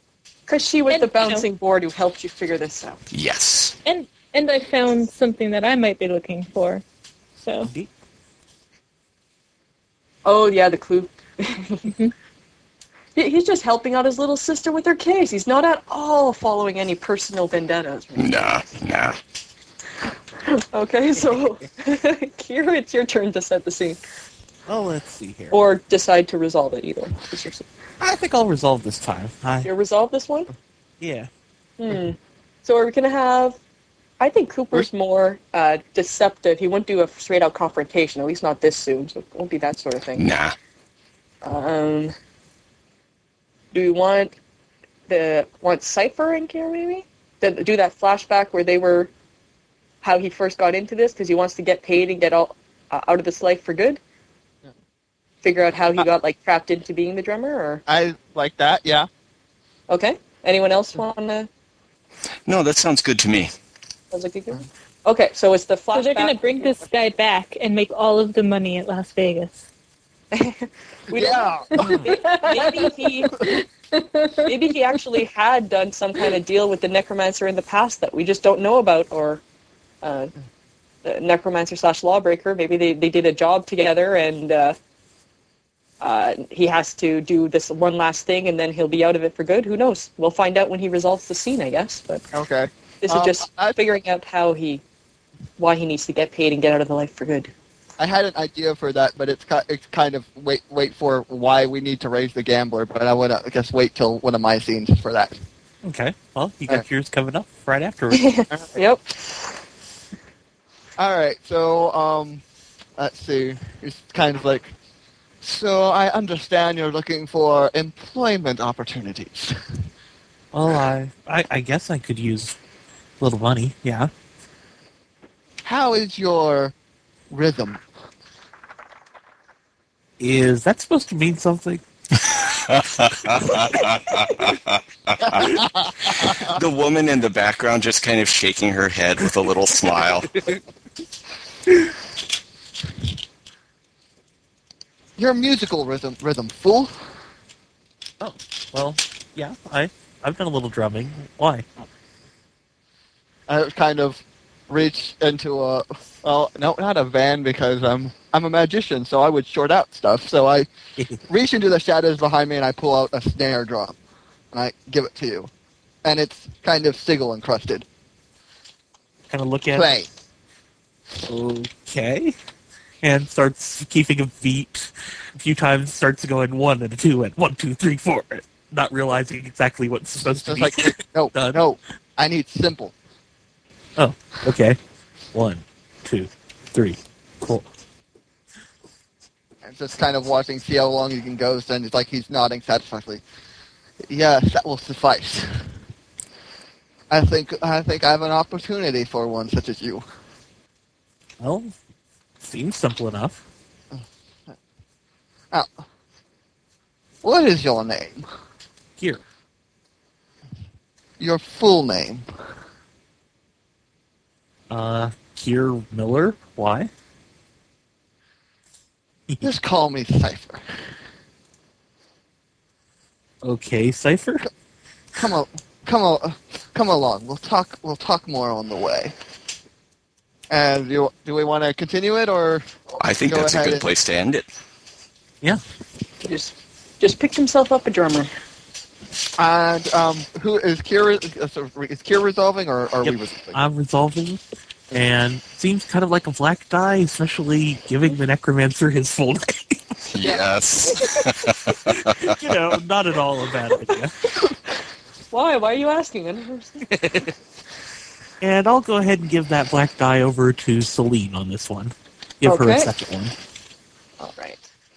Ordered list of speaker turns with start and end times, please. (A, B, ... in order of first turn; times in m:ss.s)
0:00.5-0:03.0 A
0:00.9-0:01.4 B
0:03.1-0:03.8 C
0:03.8-0:06.8 B
0:07.4-0:07.7 B
0:10.2-0:11.8 A
0:11.8-0:12.1 B
0:13.2-0:18.5 A
0:18.2-0:19.2 C
0:20.4-0:24.0 A
0:24.7-0:25.6 D
0:25.5-0:27.7 A
0:28.0-0:29.7 D
0:29.6-0:30.5 A
0:31.0-0:31.3 D
0:31.8-0:33.6 A
0:34.2-0:40.3 A
0:40.2-0:40.6 C
0:41.4-0:42.1 A
0:43.7-0:44.3 A
0:45.1-0:49.1 A
0:50.0-0:54.0 A
0:55.4-0:57.8 A
0:57.9-0:59.1 E
0:59.9-1:01.5 A
1:02.4-1:03.5 C
1:04.1-1:06.8 A
1:05.9-1:09.6 B
1:10.3-1:13.4 A
1:11.1-1:12.1 E
1:11.9-1:14.5 B
1:14.4-1:19.4 A
1:20.0-1:20.3 A
1:21.0-1:24.7 A
1:26.0-1:32.2 A
1:32.3-1:33.8 E
1:33.0-1:34.8 A
1:35.6-1:37.5 A
1:38.0-1:45.4 E
1:45.8-1:48.3 D
1:48.1-1:49.3 A
1:51.0-1:52.4 E
1:53.0-1:54.7 E
1:55.4-1:59.6 E
2:00.5-2:02.6 D
2:03.2-2:04.1 D
2:05.6-2:06.7 E
2:07.3-2:07.8 E
2:10.2-2:11.8 D
2:12.2-2:20.3 C
2:15.2-2:16.6 E
2:25.2-2:26.9 E
2:28.2-2:31.6 D
2:33.5-2:40.7 E
2:41.3-2:44.0 E
2:44.5-2:45.5 E
2:46.0-2:47.8 E
2:49.3-2:49.9 D
2:49.7-2:50.1 E
2:51.2-2:52.3 D
2:53.0-3:01.6 D
3:00.3-3:02.9 E
3:04.0-3:04.8 D
3:05.3-3:07.6 D
3:09.6-3:13.2 E
3:14.1-3:15.6 E
3:17.1-3:20.0 E
3:21.4-3:21.7 D
3:22.4-3:23.4 D
3:25.5-3:25.8 E
3:27.2-3:28.2 E
3:31.2-3:32.2 E
3:34.7-3:36.9 D
3:39.4-3:40.6 E
3:43.4-3:44.5 D
3:45.2-3:49.1 E
3:50.5-3:52.6 E
3:53.0-3:54.5 C
3:53.2-3:53.9 E
3:56.2-3:58.3 A
3:59.4-4:03.6 E
4:03.0-4:04.4 D
4:04.9-4:09.9 D
4:10.1-4:12.5 C
4:10.2-4:11.3 A
4:12.0-4:14.1 D
4:13.8-4:14.5 A
4:15.3-4:16.8 A
4:16.9-4:17.3 D
4:18.4-4:23.3 D
4:22.4-4:22.9 A
4:24.2-4:24.6 A